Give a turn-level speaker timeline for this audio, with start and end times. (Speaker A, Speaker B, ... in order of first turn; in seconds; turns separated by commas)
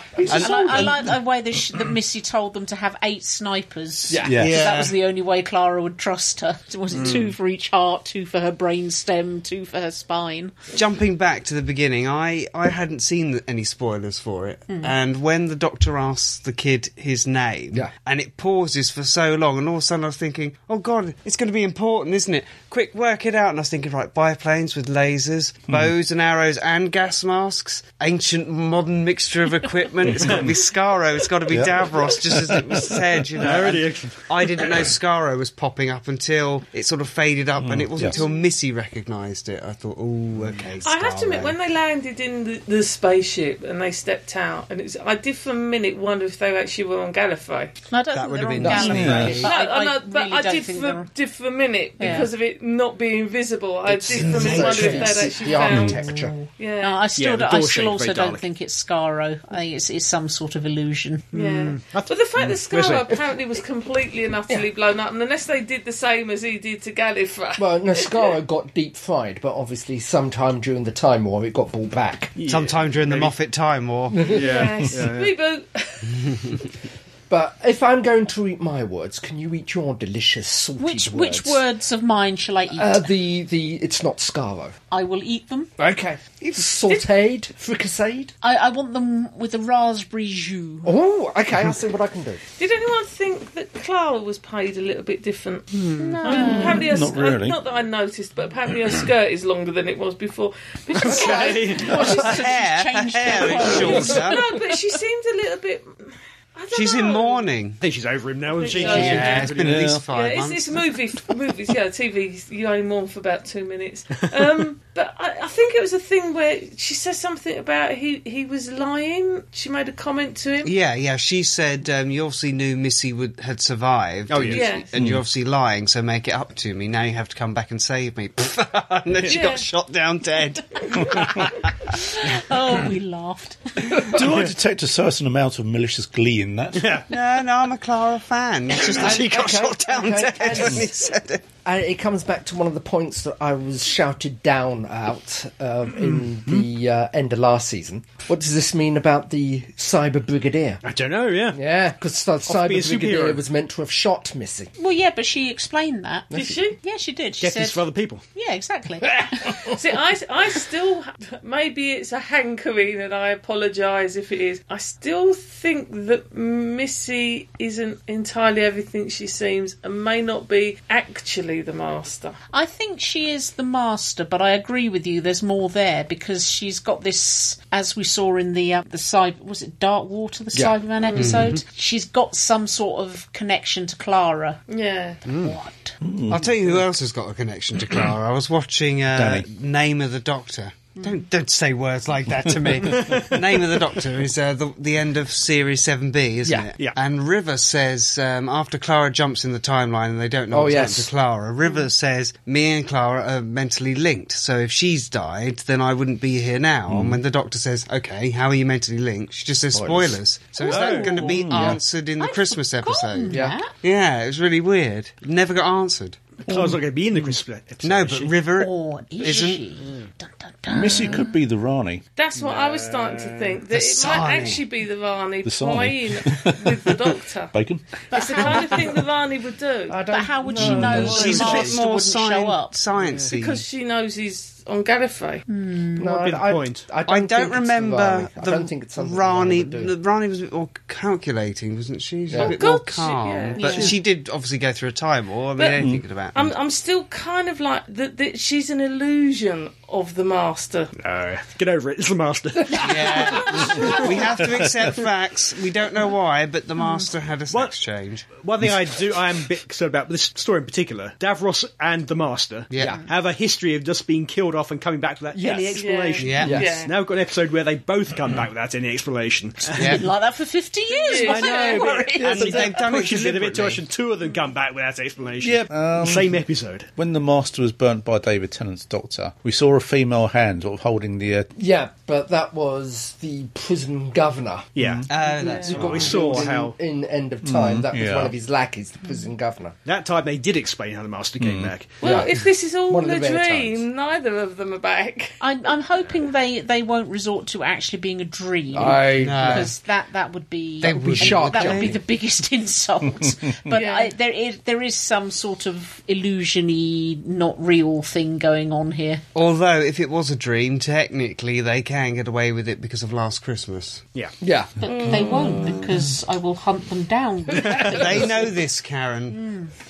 Speaker A: 0.2-0.9, Speaker B: 0.2-1.0, Speaker C: 0.3-10.5, Speaker A: 4.1-4.4, Speaker D: 4.2-4.7, Speaker B: 4.3-4.9, Speaker E: 6.9-7.3, Speaker B: 10.7-41.6, Speaker D: 30.2-30.5, Speaker D: 31.5-33.0, Speaker E: 33.4-34.9, Speaker D: 37.6-38.2, Speaker F: 38.1-38.4, Speaker F: 40.8-47.7, Speaker C: 47.9-51.1, Speaker B: 48.1-49.5, Speaker A: 48.6-49.2, Speaker D: 48.7-49.5, Speaker F: 49.4-56.0, Speaker C: 52.0-52.3, Speaker A: 53.8-56.3, Speaker B: 54.1-55.4, Speaker C: 56.4-61.3, Speaker F: 56.5-57.0, Speaker E: 57.1-58.4, Speaker E: 61.3-63.2, Speaker F: 61.3-68.3, Speaker A: 67.5-72.3, Speaker E: 72.3-73.4, Speaker B: 72.5-74.3, Speaker A: 74.1-74.4, Speaker E: 74.2-75.3, Speaker F: 74.3-76.6, Speaker A: 77.3-81.6, Speaker C: 80.8-83.1, Speaker A: 82.7-84.8, Speaker C: 84.9-85.7, Speaker A: 85.8-88.3, Speaker C: 88.4-90.9, Speaker A: 90.8-92.4, Speaker F: 92.6-102.4, Speaker E: 95.7-96.1, Speaker C: 96.0-96.9, Speaker D: 96.7-97.6, Speaker E: 101.0-102.2, Speaker C: 101.7-104.4, Speaker B: 101.9-104.4, Speaker F: 103.7-107.5, Speaker B: 106.7-107.8, Speaker E: 107.8-110.0, Speaker F: 108.5-120.7, Speaker C: 108.8-109.4, Speaker B: 108.8-110.8, Speaker D: 109.6-110.0, Speaker B: 120.6-131.6, Speaker E: 124.3-124.8, Speaker F: 124.5-124.8, Speaker D: 124.9-125.2, Speaker E: 129.2-129.4, Speaker F: 129.3-129.6, Speaker D: 131.0-131.3, Speaker C: 131.9-134.0, Speaker D: 133.9-137.0, Speaker E: 136.8-137.1, Speaker B: 137.1-141.4, Speaker A: 138.8-140.9, Speaker A: 141.6-150.8, Speaker E: 146.0-146.7, Speaker E: 150.8-151.6, Speaker A: 151.5-154.7, Speaker E: 152.5-153.4, Speaker C: 154.8-159.7, Speaker A: 156.3-156.6, Speaker F: 156.3-156.8, Speaker E: 157.4-158.2, Speaker F: 159.7-172.3, Speaker C: 172.5-184.6, Speaker F: 181.0-181.5, Speaker B: 181.1-181.6, Speaker F: 184.7-185.2, Speaker E: 185.3-185.5, Speaker C: 185.4-185.9, Speaker D: 186.0-186.4, Speaker B: 186.3-216.2, Speaker D: 189.1-189.4, Speaker E: 192.8-193.4, Speaker A: 196.4-196.7, Speaker A: 200.5-201.1, Speaker D: 206.9-207.2, Speaker A: 209.7-210.2, Speaker C: 210.6-211.4, Speaker E: 210.6-211.4, Speaker D: 211.2-211.8, Speaker A: 211.5-211.8, Speaker C: 212.2-213.7, Speaker A: 213.3-213.6, Speaker E: 216.4-218.5, Speaker B: 217.8-219.6, Speaker C: 218.6-221.3, Speaker D: 220.7-222.1, Speaker F: 222.2-227.6, Speaker E: 222.3-223.6, Speaker B: 223.7-224.7, Speaker D: 225.4-227.9, Speaker C: 228.1-229.0, Speaker F: 228.1-230.0, Speaker A: 229.9-231.8, Speaker C: 230.1-232.8, Speaker B: 230.8-233.6, Speaker E: 231.0-231.6, Speaker E: 232.9-233.4, Speaker F: 233.3-235.4, Speaker C: 235.5-236.1, Speaker A: 236.0-239.9, Speaker E: 236.0-236.9, Speaker B: 237.1-246.3, Speaker A: 242.3-242.6, Speaker F: 242.3-243.9, Speaker C: 243.6-243.9, Speaker E: 243.7-243.9, Speaker D: 245.8-246.5, Speaker F: 246.3-250.9, Speaker E: 251.0-254.5, Speaker B: 252.8-258.3, Speaker C: 253.7-254.0, Speaker C: 256.8-257.1, Speaker E: 257.5-257.8, Speaker E: 258.3-270.1, Speaker B: 262.7-263.0, Speaker A: 262.8-263.0, Speaker A: 265.3-266.7, Speaker F: 265.8-266.9, Speaker B: 266.2-266.6, Speaker C: 269.7-272.7, Speaker B: 269.8-270.0, Speaker F: 270.9-271.9, Speaker E: 271.2-276.9, Speaker B: 272.2-273.8, Speaker D: 275.4-276.4, Speaker D: 276.9-281.5, Speaker A: 281.6-284.7, Speaker E: 284.8-285.1, Speaker B: 285.1-286.5, Speaker F: 285.2-285.8, Speaker A: 285.4-289.7, Speaker E: 285.6-286.7, Speaker D: 287.4-288.3, Speaker E: 289.8-292.0, Speaker D: 291.4-291.7, Speaker F: 292.0-295.4, Speaker A: 292.0-293.8, Speaker C: 295.4-309.2, Speaker A: 298.7-299.7, Speaker B: 299.1-299.7, Speaker B: 300.8-301.9, Speaker A: 300.8-302.0, Speaker F: 303.7-304.1, Speaker B: 309.3-314.0, Speaker A: 314.4-314.7, Speaker C: 314.8-318.5, Speaker F: 314.9-315.8, Speaker E: 317.6-317.9, Speaker B: 317.7-319.4, Speaker C: 319.3-319.7